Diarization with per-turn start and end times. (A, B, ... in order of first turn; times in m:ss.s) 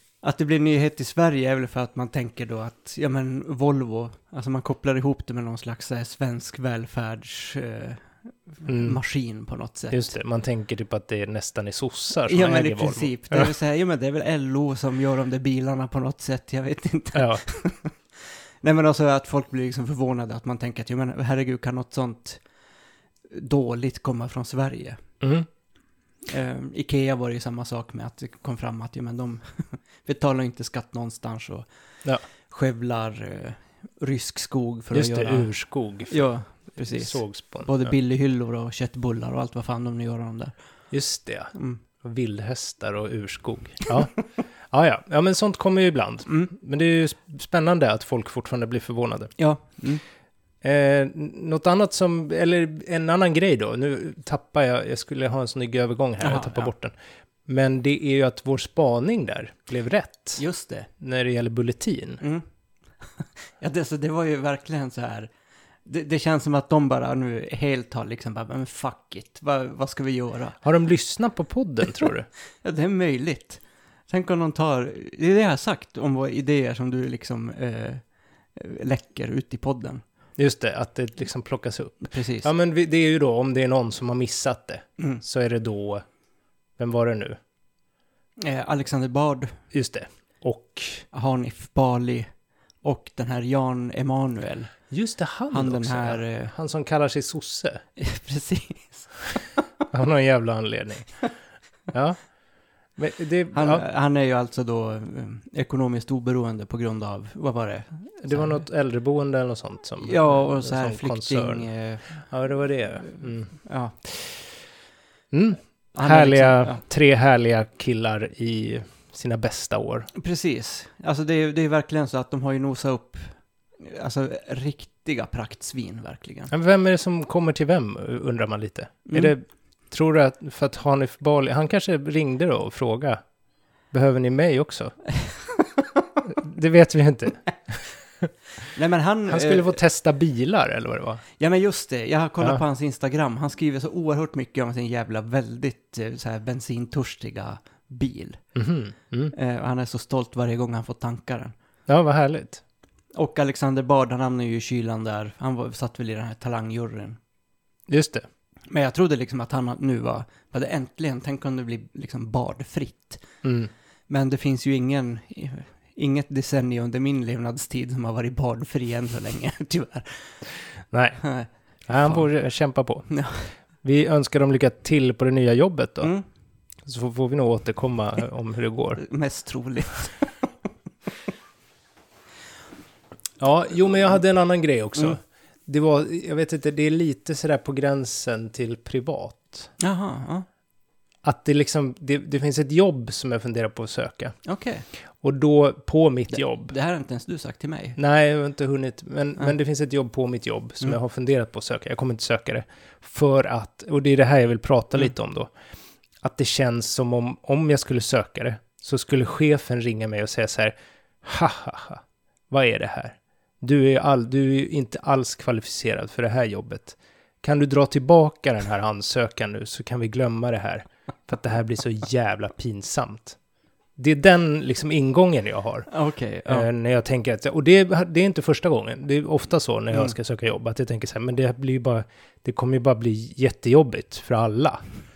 0:00.2-0:10.2 A
0:08.7-0:09.0 B
0:09.9-0:13.6 B
0:12.3-0:22.4 A
0:17.2-0:17.4 B
0:23.3-0:25.0 A
0:25.2-0:25.5 B
0:26.3-0:31.7 A
0:32.5-0:35.5 A
0:34.9-0:37.9 B
0:36.1-0:40.5 A
0:40.9-0:44.1 B
0:41.5-0:41.8 A
0:44.7-0:49.4 B
0:46.3-0:46.5 A
0:49.4-0:50.0 A
0:50.6-0:57.0 B
0:56.2-0:56.7 A
0:57.5-1:00.4 B
1:00.4-1:00.9 A
1:01.0-1:02.2 B
1:03.0-1:05.3 A
1:05.8-1:10.6 A
1:10.6-1:12.3 B
1:12.6-1:18.0 A
1:18.6-1:20.0 A
1:20.4-1:26.0 B
1:22.0-1:22.5 A
1:26.8-1:27.4 B
1:28.4-1:29.6 A
1:29.7-1:31.0 B
1:31.1-1:32.3 A
1:32.8-1:34.7 A
1:34.9-1:37.8 B
1:35.5-1:36.5 A
1:38.0-1:39.4 A
1:39.9-1:41.1 B
1:41.9-1:42.3 B
1:43.0-1:43.8 B
1:43.5-1:48.6 A
1:48.2-1:51.7 B
1:50.0-1:52.3 A
1:52.2-1:53.5 B
1:53.0-1:54.0 A
1:55.3-2:00.1 B
1:55.9-1:56.8 A
2:00.1-2:06.5 A
2:06.5-2:13.2 B
2:09.1-2:09.3 A
2:13.9-2:15.0 B
2:16.3-2:18.3 B
2:18.7-2:19.8 A
2:19.3-2:21.2 B
2:21.4-2:28.4 A
2:28.6-2:29.3 B
2:29.3-2:31.5 A
2:31.9-2:32.6 B
2:33.2-2:37.2 A
2:37.9-2:38.3 B
2:38.7-2:43.2 A
2:43.4-2:43.7 B
2:44.1-2:50.3 A
2:50.9-2:51.2 B
2:51.2-2:52.3 A
2:51.9-2:53.1 B
2:53.1-2:53.5 A
2:53.8-2:56.1 B
2:56.8-2:59.0 B
2:59.0-3:00.5 A
3:03.4-3:09.7 B
3:09.8-3:10.5 A
3:11.2-3:14.4 B
3:14.4-3:14.9 A
3:15.2-3:16.7 B
3:16.3-3:18.0 A
3:18.0-3:25.5 B
3:26.2-3:43.4 B
3:44.0-3:45.9 B
3:45.9-3:46.7 A
3:46.5-3:54.8 B